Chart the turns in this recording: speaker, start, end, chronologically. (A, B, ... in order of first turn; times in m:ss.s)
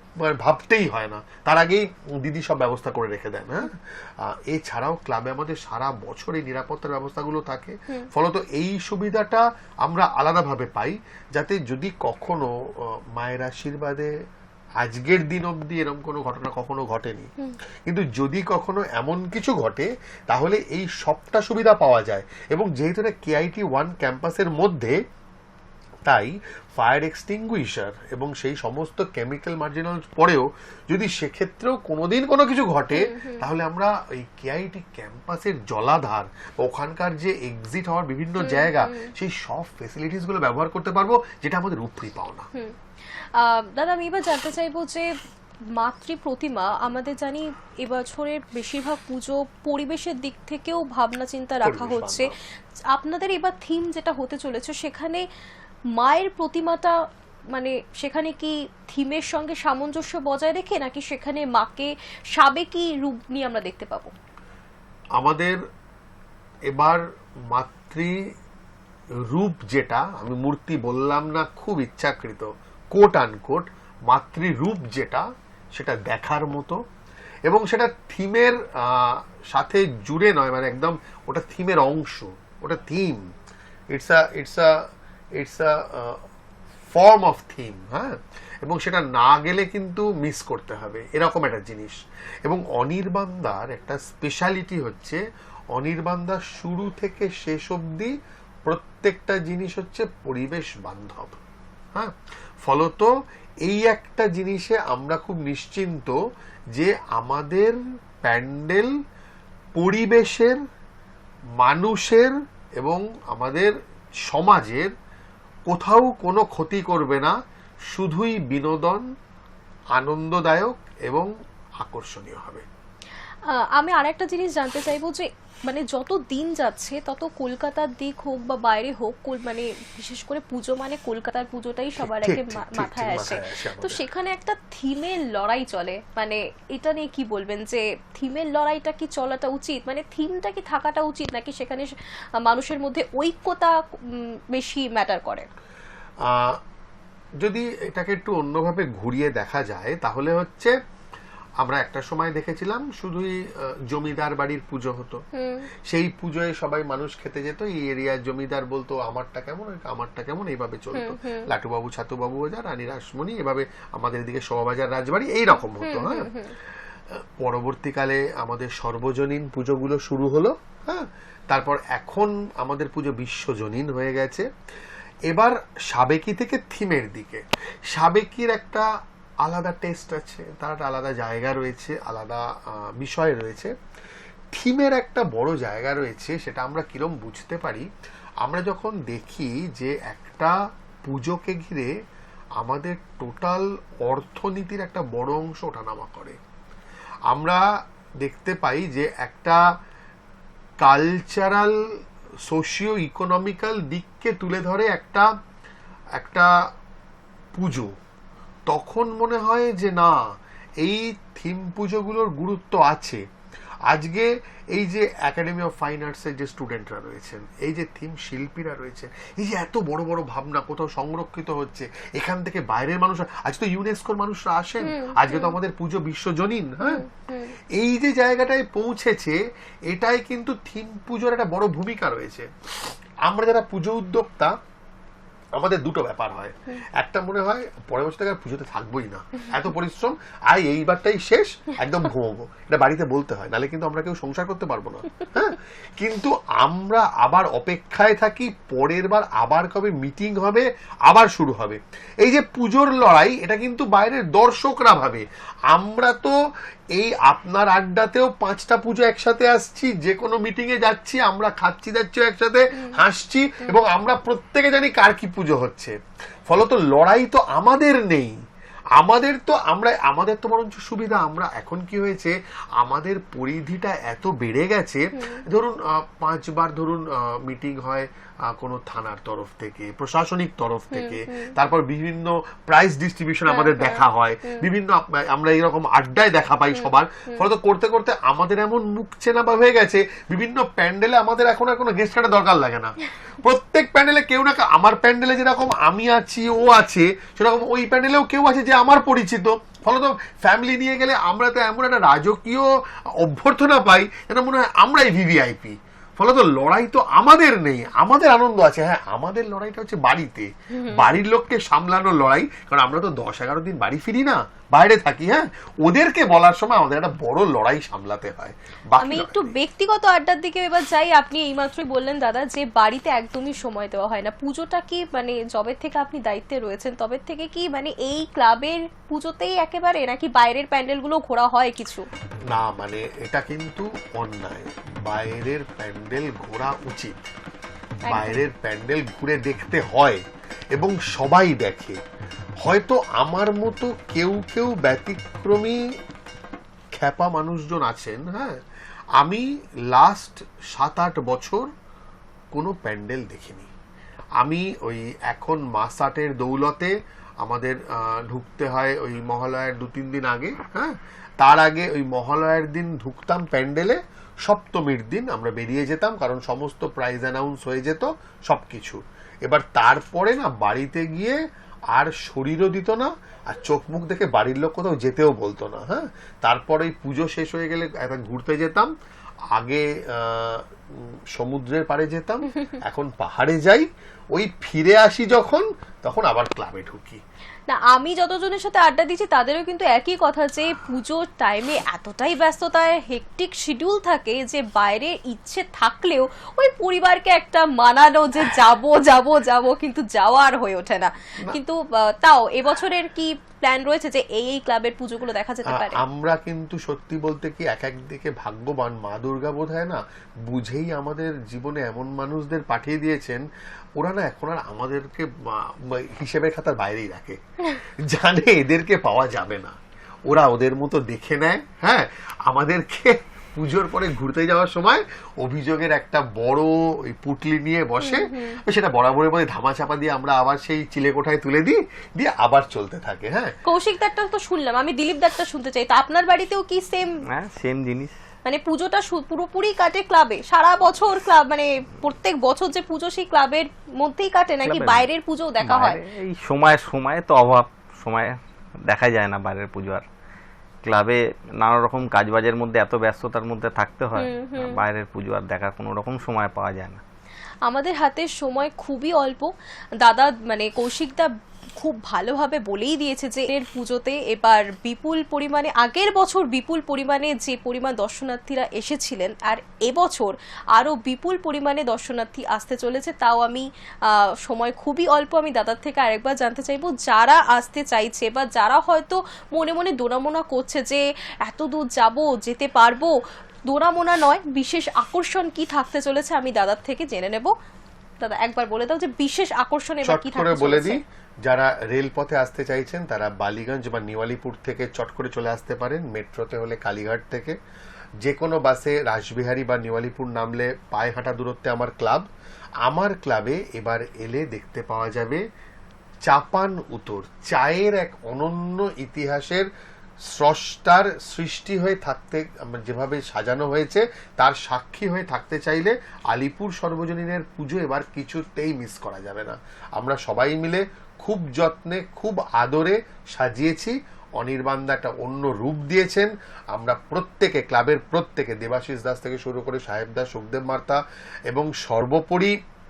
0:00.2-0:12.5 A
0:13.2-0:14.1 A
0:14.8-0:17.3 A
0:17.9-0:25.0 A
0:26.1-0:42.5 A
0:32.9-0:33.4 B
0:38.4-0:39.1 B
0:43.4-0:45.1 B
0:45.8-0:52.3 B
0:51.6-0:52.4 A
0:52.9-0:55.3 B
0:55.9-1:04.1 B
1:05.2-1:05.6 A
1:06.7-1:08.2 A
1:09.3-1:16.8 A
1:17.5-1:23.3 A
1:23.9-1:24.7 A
1:25.4-1:26.2 A
1:26.9-1:35.2 A
1:35.8-1:38.1 A
1:38.6-1:41.4 A
1:42.0-1:43.1 A
1:43.6-1:46.2 A
1:46.7-1:48.9 A
1:49.8-1:50.6 A
1:51.6-1:53.7 A
1:54.3-1:54.9 A
1:55.7-1:57.4 A
1:57.9-1:59.1 A
1:59.9-2:02.7 A
2:03.5-2:25.5 B
2:12.0-2:14.0 A
2:26.2-2:26.6 A
2:27.4-2:30.8 A
2:31.6-2:35.2 A
2:35.3-2:35.7 B
2:35.9-2:46.3 A
2:40.9-2:41.5 B
2:45.8-2:46.5 B
2:47.1-2:54.5 A
2:55.3-2:58.9 A
2:59.4-3:03.7 A
3:04.5-3:07.9 A
3:08.4-3:11.9 A
3:12.6-3:16.4 A
3:17.3-3:17.6 A
3:18.2-3:19.6 A
3:20.8-3:21.8 A
3:22.5-3:25.3 A
3:26.2-3:26.5 A
3:27.6-3:27.9 A
3:28.7-3:30.2 A
3:30.8-3:33.2 A
3:33.9-3:47.0 A
3:44.8-3:45.6 B
3:46.8-3:47.6 B
3:47.8-3:54.5 A
3:55.6-4:16.4 A
4:17.0-4:26.0 A
4:26.5-4:28.4 A
4:29.0-5:02.7 A
4:35.1-4:35.4 B
4:40.9-4:41.5 B
4:43.5-4:44.6 B
4:46.8-4:47.4 B
5:03.2-5:19.6 A
5:10.7-5:11.1 B
5:19.0-5:32.1 B
5:32.5-5:37.2 A
5:38.1-5:38.4 B
5:38.1-5:40.2 A
5:40.8-5:42.0 A
5:42.6-5:45.8 A
5:47.0-5:48.6 A
5:49.2-5:51.7 A
5:52.5-5:53.7 A
5:54.4-6:11.4 A
6:11.9-6:18.9 A
6:19.5-6:27.2 A
6:27.7-6:46.0 B
6:45.7-6:53.4 A
6:54.0-6:59.8 A
7:00.3-7:13.6 A
7:08.0-7:08.6 B
7:13.7-7:17.2 B
7:17.3-7:18.1 C
7:18.5-7:26.0 B
7:24.6-7:25.1 C
7:25.6-7:30.0 C
7:30.8-7:37.0 C
7:34.2-7:34.8 B
7:37.7-7:39.5 B
7:40.0-8:03.2 B
8:03.7-8:07.5 B
8:08.2-8:11.0 B
8:10.0-8:17.6 A
8:18.2-8:22.3 A
8:22.8-8:25.4 A
8:26.3-8:29.7 A
8:30.3-8:52.6 A